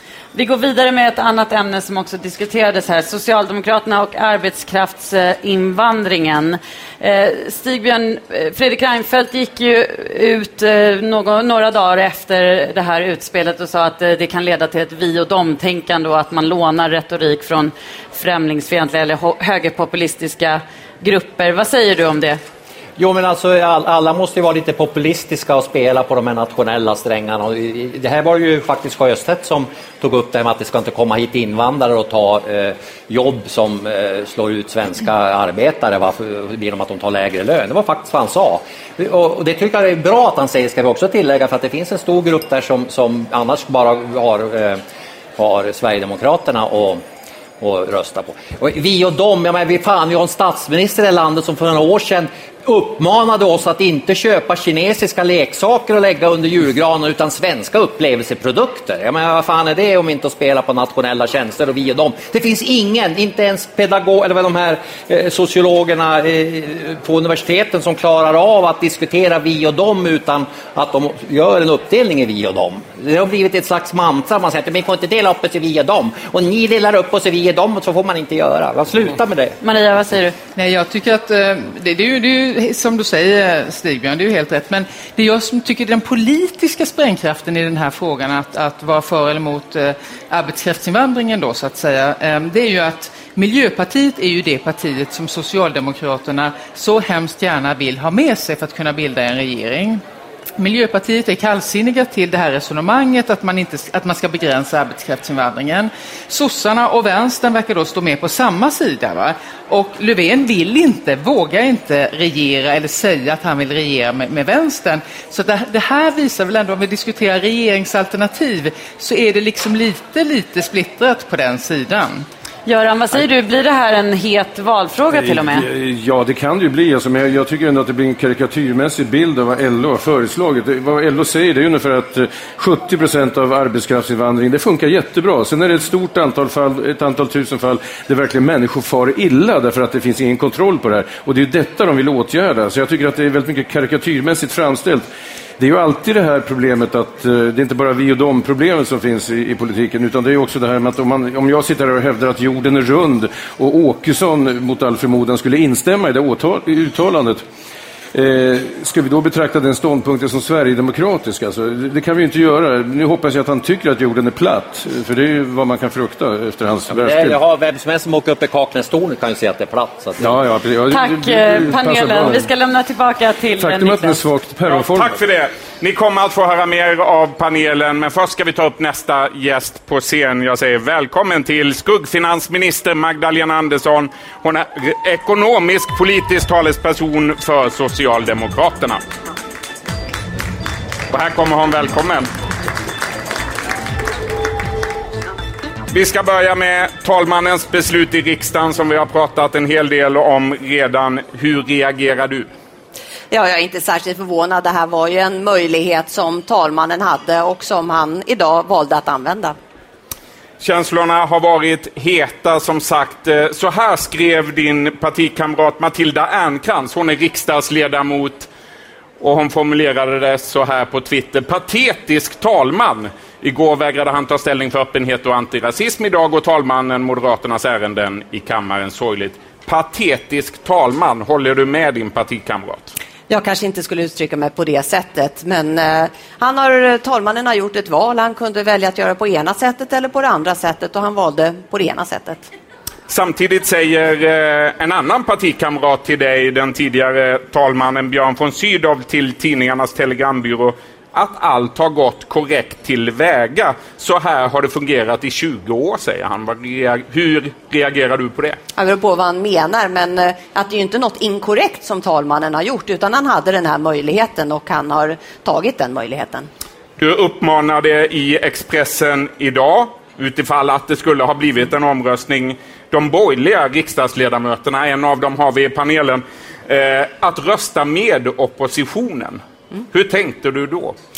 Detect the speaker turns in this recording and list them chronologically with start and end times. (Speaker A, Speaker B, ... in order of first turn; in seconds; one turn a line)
Speaker A: 0.3-22.4
Speaker B: 23.0-44.8
Speaker B: 45.4-47.0
Speaker B: 47.6-79.6
Speaker A: 79.6-80.4
Speaker C: 80.6-100.0
Speaker C: 100.6-122.3
Speaker A: 122.7-125.7
Speaker D: 125.1-145.1
Speaker D: 145.6-157.4
Speaker D: 158.1-167.4
Speaker B: 166.9-170.3
Speaker D: 170.2-172.5
Speaker A: 170.9-174.2
Speaker D: 173.6-175.2
Speaker E: 174.7-189.0
Speaker E: 191.1-192.3
Speaker E: 195.9-202.5
Speaker F: 203.3-209.6
Speaker E: 210.6-218.5
Speaker E: 219.2-232.9
Speaker F: 233.3-242.5
Speaker E: 243.1-258.6
Speaker F: 258.8-266.5
Speaker E: 267.0-281.0